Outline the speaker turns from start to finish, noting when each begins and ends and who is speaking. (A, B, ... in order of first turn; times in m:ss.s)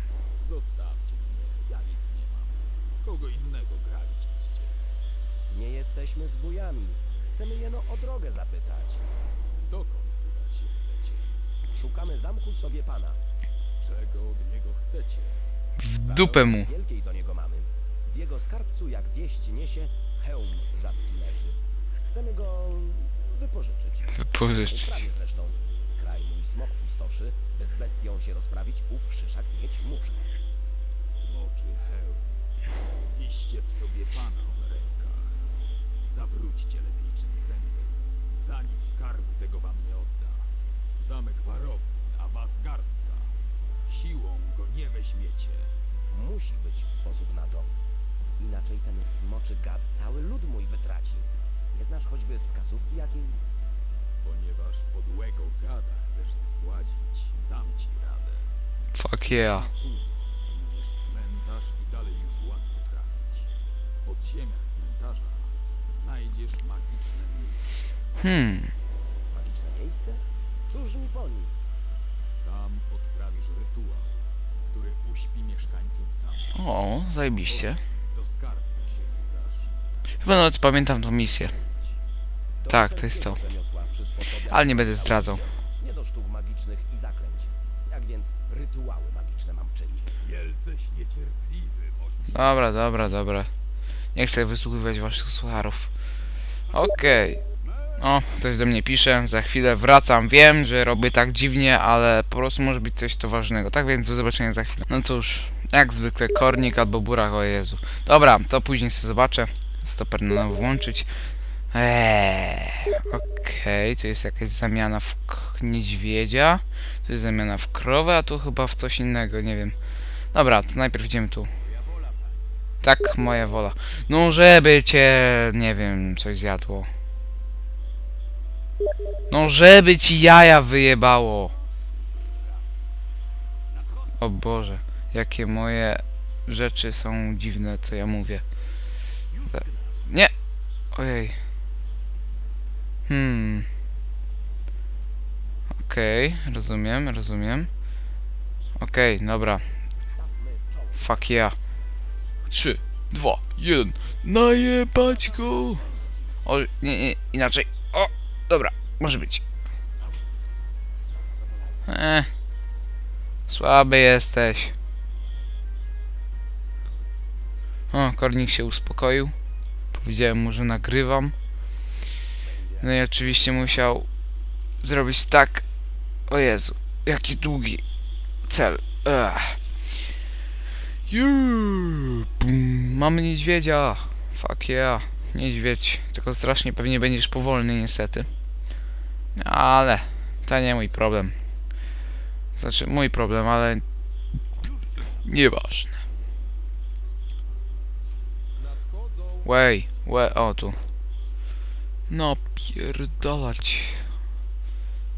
0:00.4-0:04.8 A
0:05.5-0:09.0 B
0:09.7-0:11.3 A
0:11.7-0:13.2 B
0:13.8-0:15.4 A
0:15.8-0:16.7 C
0:16.1-0:30.3 B
0:24.2-0:25.0 C
0:31.1-0:32.4 A
0:33.0-0:35.4 A
0:36.0-0:43.3 A
0:43.9-0:45.7 A
0:46.1-0:47.7 B
0:48.4-0:53.4 B
0:54.2-0:58.5 A
0:58.9-0:59.7 C
0:59.2-1:03.5 A
1:04.0-1:08.0 A
1:08.2-1:08.7 C
1:09.3-1:11.5 B
1:12.4-1:16.6 A
1:16.5-1:17.8 C
1:17.4-1:20.6 A
1:20.2-1:21.6 C
1:22.6-1:30.2 B
1:22.7-1:23.4 C
1:24.5-1:25.4 C
1:30.2-1:33.2 A
1:32.3-1:33.5 C
1:34.2-1:35.9 C
1:36.7-1:37.4 C
1:38.0-1:51.1 C
1:51.7-1:59.8 C
2:00.3-2:01.5 C
2:01.6-2:02.4 A
2:02.8-2:06.9 C
2:09.3-2:11.5 C
2:12.0-2:12.9 A
2:14.2-2:18.4 C
2:19.3-2:19.9 A
2:20.1-2:20.3 C
2:20.9-2:21.4 C
2:23.1-2:23.7 C
2:25.8-2:27.7 C
2:28.8-2:29.7 C
2:30.1-2:31.0 B
2:31.0-2:31.6 C
2:32.5-2:35.8 C
2:35.3-2:36.1 B
2:36.4-2:39.4 C
2:41.8-2:42.3 C
2:43.5-2:44.7 C
2:47.9-2:49.3 C
2:49.9-2:51.3 C
2:52.8-2:54.1 C
2:54.8-2:55.6 C
2:56.3-2:57.8 C
2:58.5-2:59.6 C
3:01.1-3:08.3 C
3:09.4-3:11.3 C
3:12.6-3:13.8 C
3:15.2-3:16.0 C
3:18.7-3:19.4 A
3:19.4-3:20.8 C
3:22.1-3:24.1 C